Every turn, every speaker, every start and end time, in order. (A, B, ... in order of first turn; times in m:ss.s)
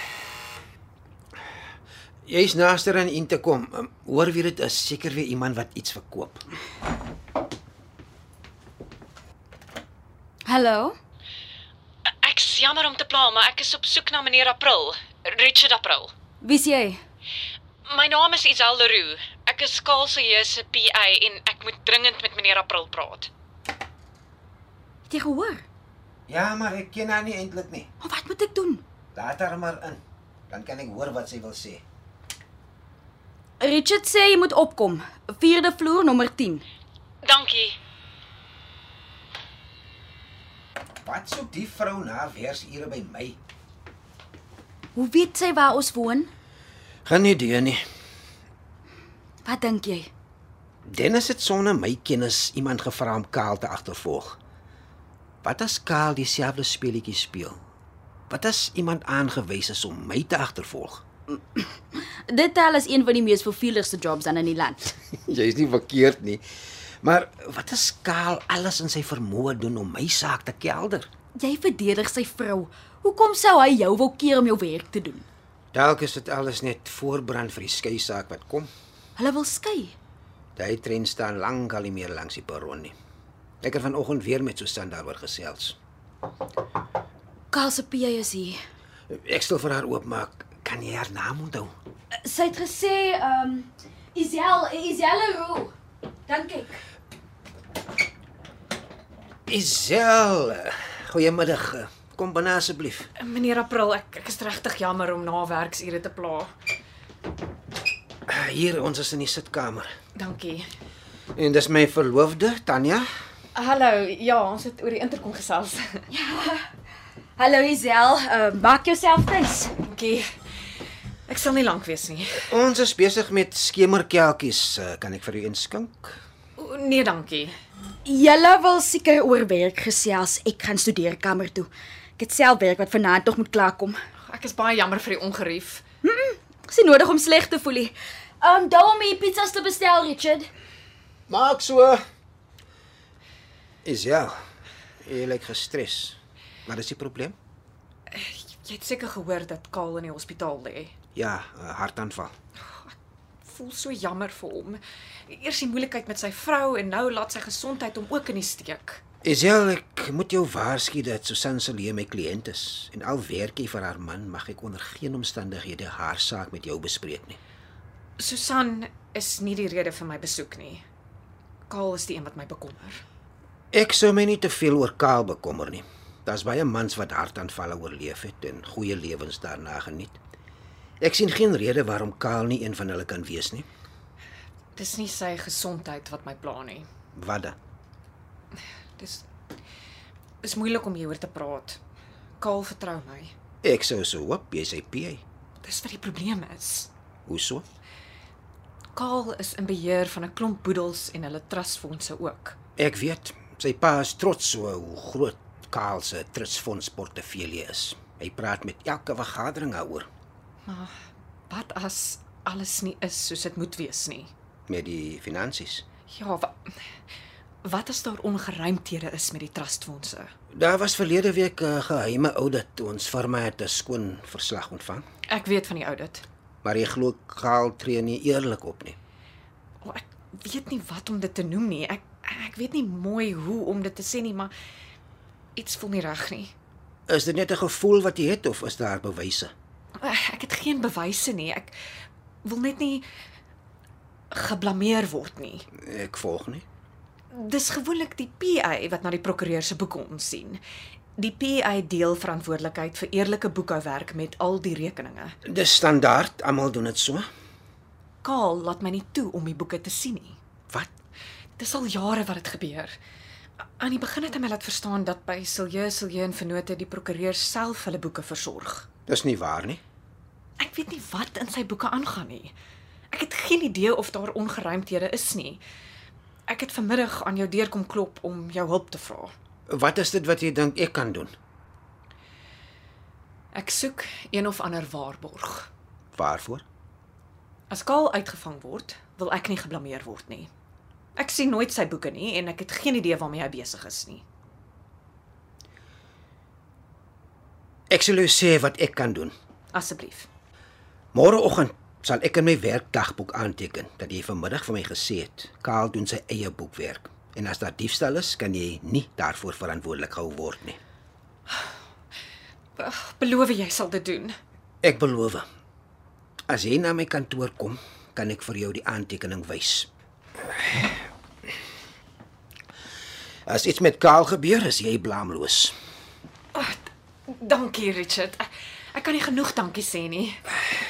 0:02.2-0:06.4 A
0:10.4-0:11.0 B
0:12.2-0:16.1 C
0:16.4-0:17.0 B
0:17.9-0:23.3 C
0:25.1-0:25.6 B
0:26.3-0:27.9 A
0:28.0-0:28.8 B
0:29.1-0:31.8 A
0:33.6-0:36.6 B
0:37.2-0:37.8 C
0:41.0-0:43.4 A
0:44.9-0:46.3 B
0:47.0-0:47.8 A
0:49.4-0:50.1 B
0:50.9-0:54.4 A
0:55.4-0:57.6 A
0:58.3-1:01.0 A
1:01.3-1:04.9 B
1:05.2-1:06.4 A
1:07.0-1:11.1 A
1:11.4-1:15.2 B
1:15.7-1:18.7 A
1:19.2-1:19.9 B
1:20.6-1:22.9 A
1:23.6-1:25.8 A
1:27.5-1:28.6 B
1:29.1-1:31.7 A
1:32.2-1:35.7 B
1:36.3-1:36.8 B
1:39.5-1:43.1 A
1:43.2-1:46.5 C
1:48.3-1:49.9 A
1:50.2-1:50.7 C
1:51.3-1:53.1 A
1:53.5-1:56.0 C
1:56.1-1:56.7 B
1:57.4-1:59.7 B
1:59.8-2:00.3 C
2:01.3-2:02.5 C
2:02.4-2:06.2 A
2:06.6-2:07.5 C
2:08.0-2:14.0 B
2:14.3-2:15.8 C
2:16.0-2:20.5 B
2:21.3-2:22.0 A
2:23.8-2:24.4 A
2:25.0-2:27.4 A
2:28.1-2:30.9 C
2:31.1-2:32.3 A
2:32.7-2:39.0 C
2:39.2-2:47.4 A
2:48.2-2:50.8 C
2:51.7-2:53.0 C
2:53.7-3:00.2 A
3:01.0-3:03.7 A
3:04.8-3:06.9 C
3:07.1-3:07.6 A
3:09.0-3:09.2 C
3:10.4-3:11.8 C
3:12.4-3:13.3 C
3:13.6-3:15.2 A
3:15.6-3:16.9 C
3:17.3-3:17.6 A
3:18.9-3:22.6 C
3:22.8-3:30.1 A
3:30.6-3:30.9 C
3:31.5-3:34.3 C
3:34.7-3:35.8 A
3:36.1-3:36.6 C
3:37.6-3:40.3 C
3:40.5-3:45.0 A
3:45.3-3:46.2 C
3:46.6-3:49.0 A
3:49.8-3:54.5 C
3:55.6-3:56.5 C
3:57.1-3:59.5 A
4:00.0-4:01.7 C
4:02.4-4:03.0 C
4:04.3-4:05.7 C
4:05.7-4:06.6 A
4:07.3-4:10.6 C
4:11.2-4:15.4 C
4:15.4-4:17.3 A
4:18.2-4:20.4 C
4:21.6-4:23.0 C
4:23.8-4:28.8 C
4:29.1-4:29.8 A
4:30.6-4:32.5 C
4:33.1-4:35.6 C
4:36.5-4:39.3 C
4:39.7-4:41.3 A
4:43.5-4:45.7 C
4:46.1-4:46.6 A
4:47.7-4:50.5 C
4:51.2-4:54.2 C
4:57.9-4:59.3 A
4:59.7-5:00.3 C
5:01.1-5:10.8 A
5:12.8-5:14.4 C
5:14.8-5:15.4 A
5:16.5-5:19.9 A
5:23.5-5:25.7 A
5:26.5-5:30.4 C